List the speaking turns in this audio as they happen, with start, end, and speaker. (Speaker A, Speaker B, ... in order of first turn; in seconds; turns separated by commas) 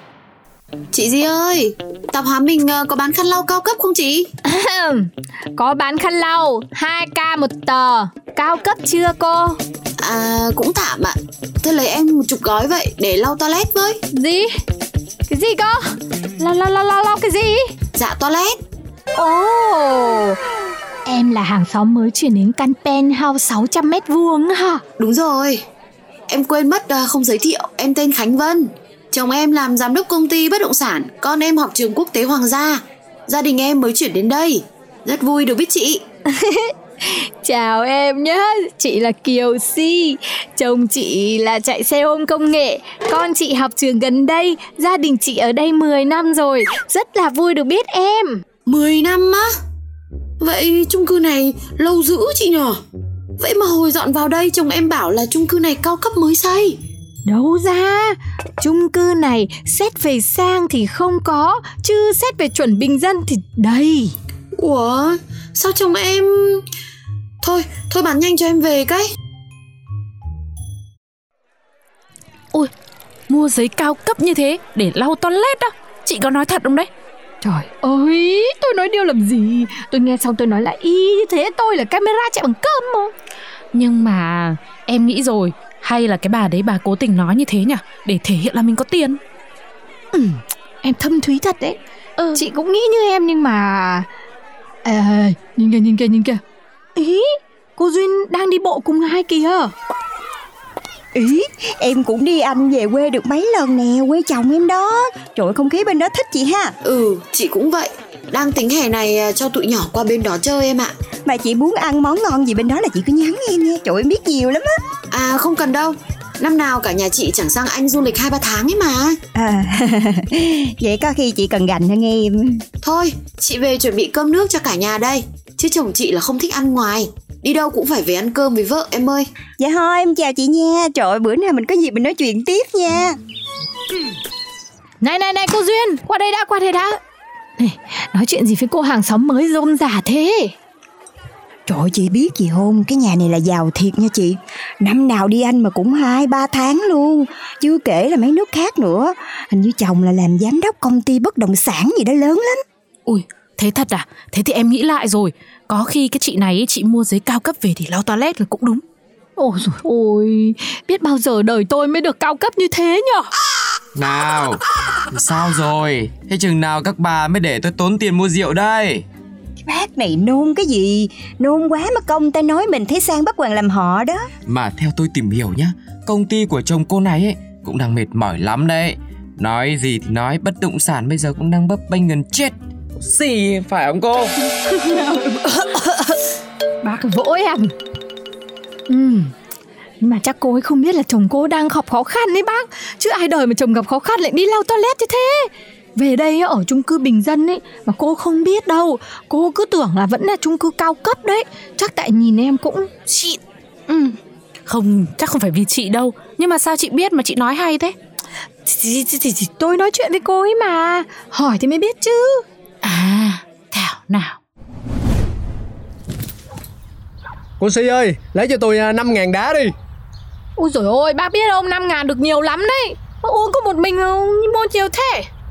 Speaker A: 0.9-4.3, Speaker B: 4.5-9.6, Speaker A: 10.0-14.0, Speaker B: 14.1-14.5, Speaker B: 15.3-17.7, Speaker A: 17.9-18.6, Speaker B: 19.1-20.4, Speaker B: 21.1-24.8, Speaker A: 25.0-25.6, Speaker A: 26.3-36.0, Speaker B: 36.4-48.4, Speaker A: 48.7-49.5, Speaker A: 50.4-52.8, Speaker A: 53.4-56.8, Speaker B: 57.3-64.2, Speaker A: 64.6-66.6, Speaker A: 67.4-69.1, Speaker C: 73.3-76.9, Speaker B: 77.4-83.1, Speaker C: 83.7-89.2, Speaker B: 90.1-91.8, Speaker C: 92.2-92.4, Speaker B: 92.3-94.1, Speaker B: 94.8-96.4, Speaker B: 97.0-99.7, Speaker D: 101.2-106.7, Speaker A: 106.8-110.9, Speaker D: 111.3-114.8, Speaker A: 115.1-119.2, Speaker D: 119.3-122.6, Speaker A: 122.8-129.3, Speaker D: 129.6-133.2, Speaker B: 135.0-137.0, Speaker B: 137.6-140.5, Speaker D: 141.7-152.6, Speaker C: 153.1-158.8, Speaker B: 159.4-163.3, Speaker E: 164.0-164.6, Speaker E: 165.1-169.1, Speaker D: 169.7-174.3, Speaker E: 174.5-184.3, Speaker B: 184.8-186.1, Speaker B: 186.8-187.7, Speaker B: 188.9-189.3, Speaker B: 190.0-202.9, Speaker C: 203.1-208.0, Speaker B: 208.7-212.4, Speaker C: 212.8-214.4, Speaker F: 217.6-219.7, Speaker B: 220.6-225.3